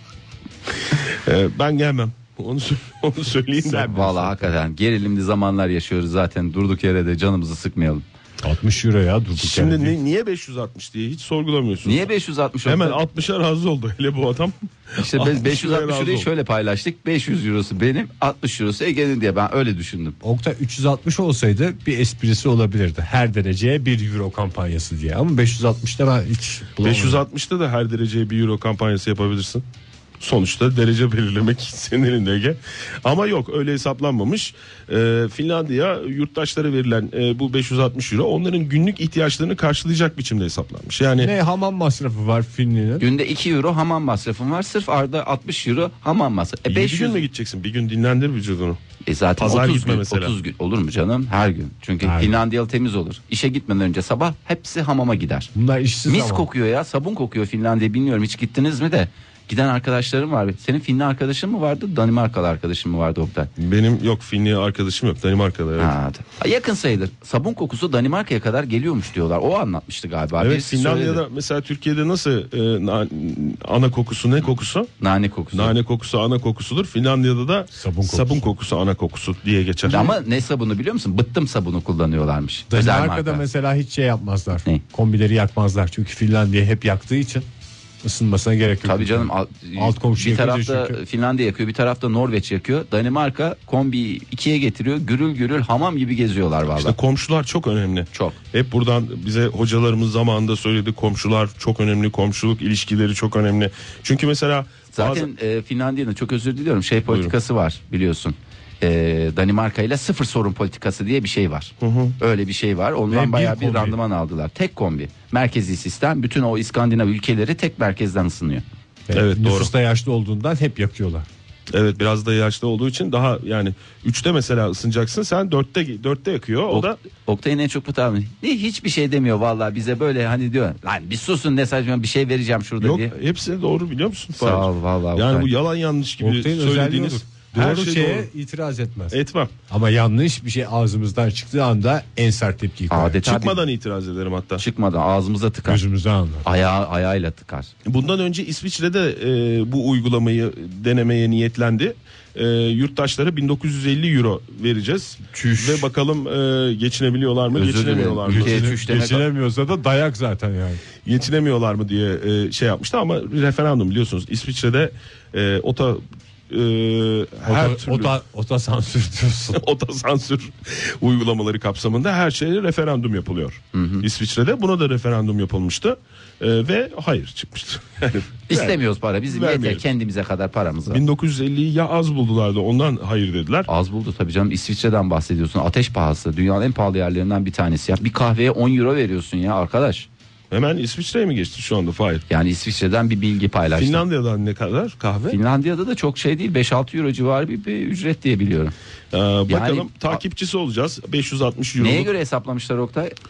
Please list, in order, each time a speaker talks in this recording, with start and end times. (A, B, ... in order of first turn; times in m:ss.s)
0:01.1-0:03.9 A
0:03.6-0:04.5 B
0:03.7-0:08.0 C
0:08.4-0:10.0 B
0:09.4-0:12.1 A
0:11.8-0:13.0 C
0:12.6-0:16.3 A
0:15.0-0:20.2 C
0:20.2-0:27.2 B
0:26.8-0:29.6 A
0:30.2-0:41.3 A
0:41.2-0:43.1 B
0:43.0-0:47.2 C
0:46.7-0:48.8 A
0:49.1-0:55.5 C
0:49.4-0:50.3 A
0:52.0-0:52.4 B
0:55.6-0:56.5 B
0:56.1-1:03.5 C
1:03.6-1:05.9 A
1:05.8-1:11.2 C
1:10.4-1:14.9 A
1:15.0-1:15.7 C
1:15.5-1:20.2 A
1:17.8-1:18.5 B
1:19.9-1:23.4 C
1:22.7-1:27.5 B
1:28.0-1:31.0 B
1:28.8-1:37.0 C
1:36.8-1:45.3 A
1:44.9-1:58.6 C
1:47.1-1:47.3 A
1:51.8-1:52.2 A
1:53.1-1:54.0 B
1:59.1-2:01.3 B
1:59.1-1:59.7 A
2:01.7-2:07.0 A
2:06.7-2:13.1 C
2:12.8-2:18.3 A
2:14.4-2:15.5 C
2:16.2-2:19.2 B
2:19.1-2:19.5 A
2:19.7-2:23.2 B
2:22.9-2:23.6 C
2:23.2-2:24.6 A
2:24.6-2:25.8 C
2:25.6-2:26.4 B
2:26.4-2:27.7 C
2:27.8-2:38.8 A
2:35.3-2:35.9 B
2:37.5-2:39.2 C
2:38.3-2:40.8 B
2:41.0-2:48.1 A
2:47.4-2:49.6 B
2:49.5-2:58.8 A
2:53.7-2:54.1 C
2:58.5-3:01.0 C
2:59.3-2:59.8 A
3:00.9-3:03.7 A
3:03.7-3:10.1 C
3:10.5-3:12.2 A
3:12.3-3:14.0 C
3:13.8-3:15.4 A
3:15.3-3:18.7 C
3:19.1-3:22.1 A
3:19.5-3:20.2 C
3:21.8-3:23.2 C